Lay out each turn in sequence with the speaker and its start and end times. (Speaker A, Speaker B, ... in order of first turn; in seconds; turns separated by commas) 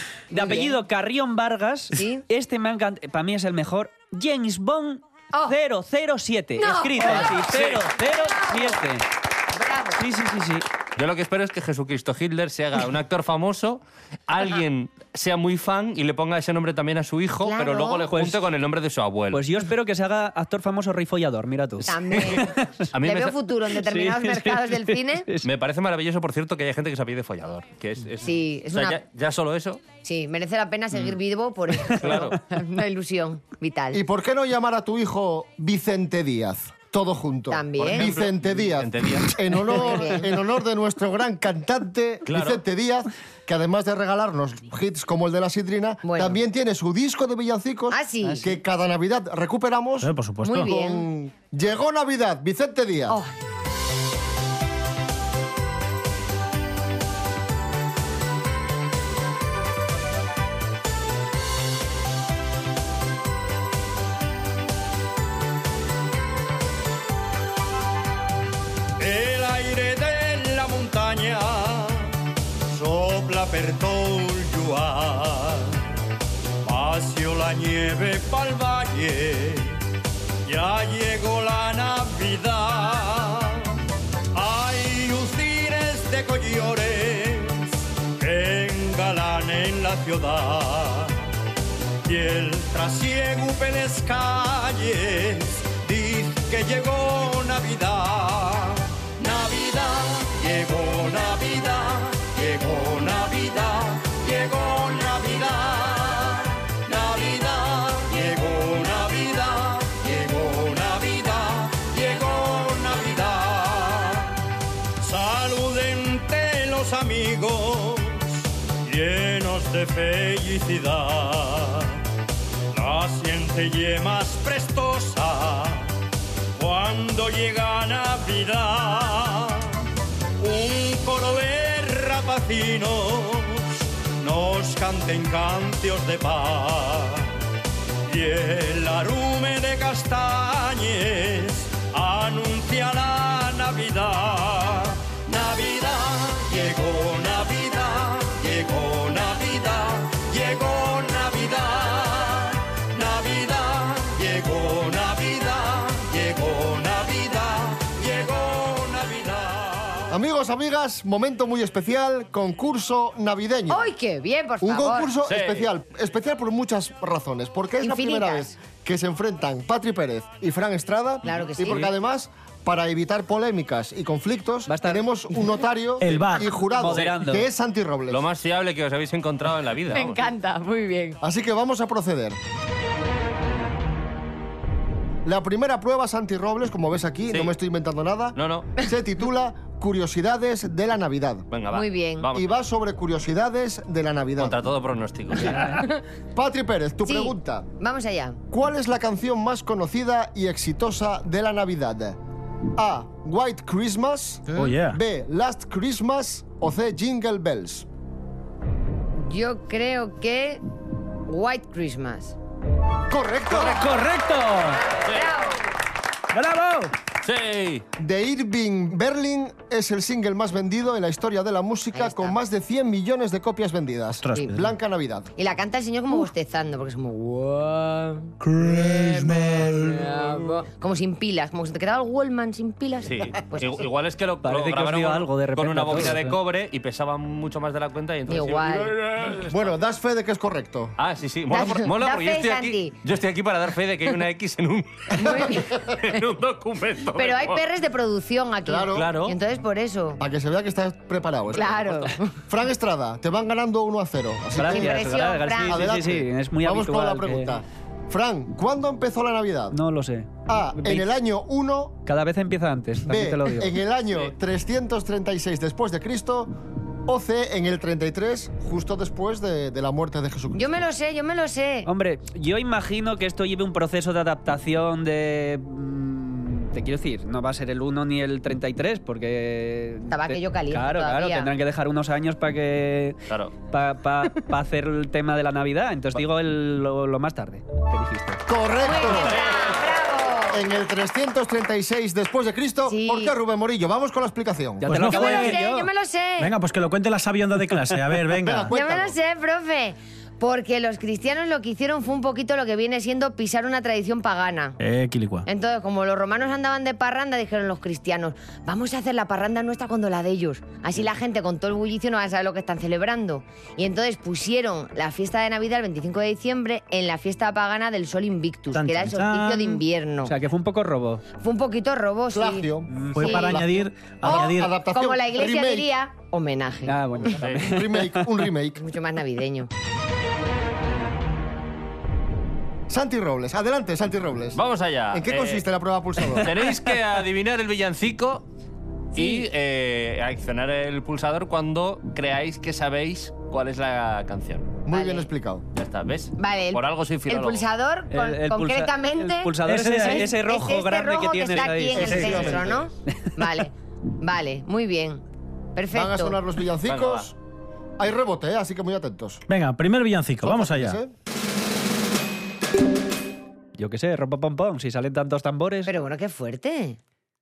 Speaker A: 0.3-0.8, Speaker B: 0.3-9.1, Speaker A: 1.9-2.2, Speaker A: 6.6-7.4, Speaker C: 7.0-7.8, Speaker A: 8.0-8.8, Speaker A: 9.5-10.0, Speaker B: 10.0-10.7, Speaker C: 10.9-19.4, Speaker A: 17.4-18.1, Speaker B: 18.1-18.4, Speaker B: 19.3-22.9, Speaker A: 21.8-25.3, Speaker C: 22.1-23.4, Speaker B: 23.8-25.5, Speaker C: 25.4-29.8, Speaker A: 28.2-29.0, Speaker A: 30.0-34.0, Speaker C: 31.9-32.4, Speaker D: 33.9-53.2, Speaker A: 37.5-38.1, Speaker C: 37.8-39.3, Speaker A: 39.7-40.3, Speaker C: 42.3-42.6, Speaker A: 46.0-46.4, Speaker A: 47.9-48.5, Speaker E: 50.0-50.7, Speaker A: 50.4-51.0, Speaker A: 53.1-53.3, Speaker F: 69.0-72.1, Speaker F: 72.7-75.8, Speaker F: 76.6-79.8, Speaker F: 80.4-83.7, Speaker F: 84.3-91.2, Speaker F: 92.0-114.4, Speaker F: 115.0-122.0, Speaker F: 122.7-125.9, Speaker F: 126.6-129.8, Speaker F: 130.4-137.3, Speaker F: 138.1-160.1, Speaker D: 160.1-163.9, Speaker A: 163.7-165.1, Speaker D: 164.6-178.3, Speaker C: 165.3-165.7, Speaker A: 167.8-168.5, Speaker A: 171.2-171.9, Speaker B: 174.7-175.1, Speaker E: 176.0-176.5, Speaker B: 176.2-177.5, Speaker C: 178.1-180.2, Speaker A: 179.9-181.2, Speaker D: 181.2-182.4, Speaker D: 185.2-191.5, Speaker C: 188.3-188.7, Speaker C: 191.5-192.5, Speaker A: 191.7-192.3, Speaker D: 192.3-194.6, Speaker C: 194.4-195.8, Speaker A: 195.6-196.0, Speaker D: 196.3-197.7, Speaker A: 197.1-198.4, Speaker D: 198.5-202.2, Speaker D: 202.8-207.9, Speaker E: 204.5-205.0, Speaker A: 209.2-210.6, Speaker A: 211.3-212.3, Speaker D: 213.1-213.9, Speaker E: 213.5-214.8, Speaker C: 215.1-215.3, Speaker A: 215.1-215.6, Speaker E: 216.3-216.9, Speaker C: 217.2-217.8, Speaker D: 218.0-225.3, Speaker A: 221.9-222.4, Speaker E: 224.2-224.6, Speaker A: 225.4-233.9, Speaker E: 228.5-229.7, Speaker C: 233.0-239.7, Speaker B: 234.4-236.3, Speaker A: 238.3-238.9, Speaker D: 239.5-240.9, Speaker C: 241.0-247.6, Speaker A: 241.5-242.9, Speaker A: 245.1-246.0, Speaker A: 247.2-250.2, Speaker D: 248.7-249.1, Speaker C: 248.9-249.3, Speaker D: 250.2-259.8, Speaker A: 251.5-252.3, Speaker B: 254.6-257.6, Speaker A: 254.7-255.9, Speaker B: 259.7-261.1, Speaker D: 260.5-262.0, Speaker B: 262.1-263.8, Speaker D: 263.1-266.5, Speaker D: 267.1-270.9, Speaker A: 270.6-271.9, Speaker B: 271.9-283.2, Speaker A: 280.1-281.5, Speaker B: 283.7-288.4, Speaker D: 288.5-289.6, Speaker A: 288.8-290.6, Speaker C: 289.1-289.7, Speaker D: 290.5-294.9, Speaker A: 292.9-293.3, Speaker B: 294.8-295.9, Speaker E: 294.8-295.7, Speaker A: 295.1-296.5, Speaker E: 296.4-298.7, Speaker D: 298.4-299.1, Speaker A: 298.7-304.8, Speaker E: 304.8-305.5, Speaker A: 305.5-320.3, Speaker E: 318.7-319.8, Speaker B: 320.2-321.2, Speaker A: 321.4-322.7, Speaker D: 322.3-325.9, Speaker B: 322.9-323.2, Speaker E: 323.1-324.8, Speaker A: 323.2-323.6, Speaker A: 324.2-327.3, Speaker B: 326.9-328.3, Speaker C: 327.4-327.7, Speaker D: 327.5-328.8, Speaker A: 328.8-329.7, Speaker D: 332.9-336.6, Speaker C: 334.5-335.6, Speaker B: 336.3-336.9, Speaker C: 336.4-338.4, Speaker C: 339.1-344.8, Speaker A: 339.2-339.4, Speaker D: 344.8-345.6, Speaker A: 344.9-345.3, Speaker C: 345.8-347.6, Speaker A: 346.4-355.2, Speaker B: 348.1-352.5, Speaker E: 349.6-350.3, Speaker D: 351.9-352.9, Speaker E: 352.0-352.5, Speaker A: 355.8-356.4, Speaker D: 355.9-357.4, Speaker C: 356.8-357.3, Speaker D: 358.0-359.4, Speaker E: 359.5-361.0, Speaker D: 360.4-361.1, Speaker B: 363.8-365.9, Speaker A: 365.9-367.0